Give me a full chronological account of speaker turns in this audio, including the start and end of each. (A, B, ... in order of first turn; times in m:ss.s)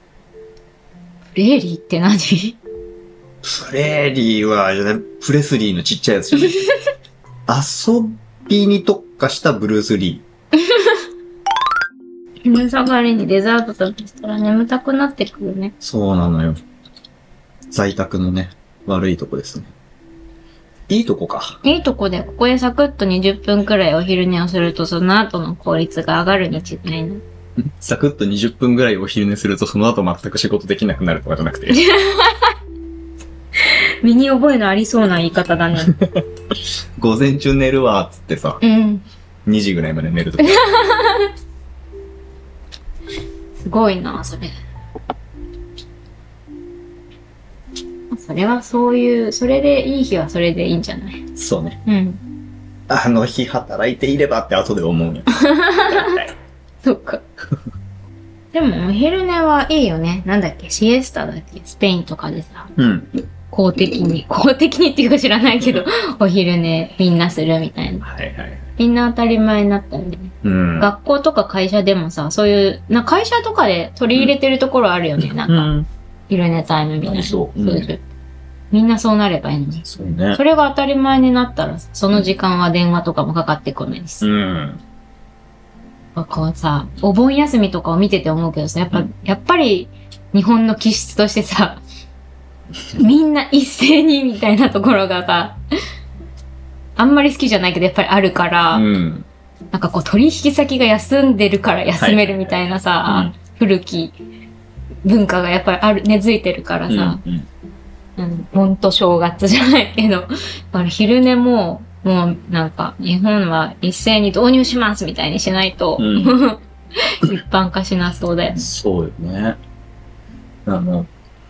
0:01.3-0:02.6 A
0:03.4-0:06.7 B
0:07.5-0:10.2 B
0:10.7-0:10.9 A
0:12.4-0:15.7 A
0:15.8-0:16.6 B
0:17.7-0:19.7 B
0:20.9-0:21.6 B
0:21.6-0:27.2 A
0:27.6-0:31.8 B
0:31.7-0:32.5 A
0:33.7-0:36.0 A
0:35.8-0:36.2 B
0:37.0-0:38.6 B
0:38.6-0:39.0 A
0:39.4-0:40.7 B
0:40.4-0:41.3 A
0:43.6-0:44.5 A
0:48.1-0:51.2 A
0:51.4-0:51.8 B
0:51.8-0:52.2 A
0:52.9-0:56.3 B
0:55.3-0:56.2 A
0:56.8-0:57.2 A
0:58.5-1:02.7 A
1:02.8-1:03.1 B
1:03.5-1:08.0 A
1:08.0-1:08.6 B
1:08.8-1:15.7 A
1:10.4-1:10.9 B
1:15.4-1:15.9 B
1:16.3-1:18.0 A
1:17.0-1:17.9 B
1:18.7-1:24.3 A
1:19.8-1:20.4 B
1:24.2-1:24.8 B
1:26.2-1:31.8 A
1:33.0-1:35.6 A
1:37.0-1:38.9 A
1:38.7-1:39.3 B
1:39.7-1:44.1 A
1:42.0-1:42.2 B
1:43.0-1:43.3 B
1:45.0-1:47.2 A
1:46.9-1:47.5 B
1:48.2-1:58.6 A
1:56.0-1:56.4 B
1:58.6-1:59.6 B
2:00.6-2:01.1 B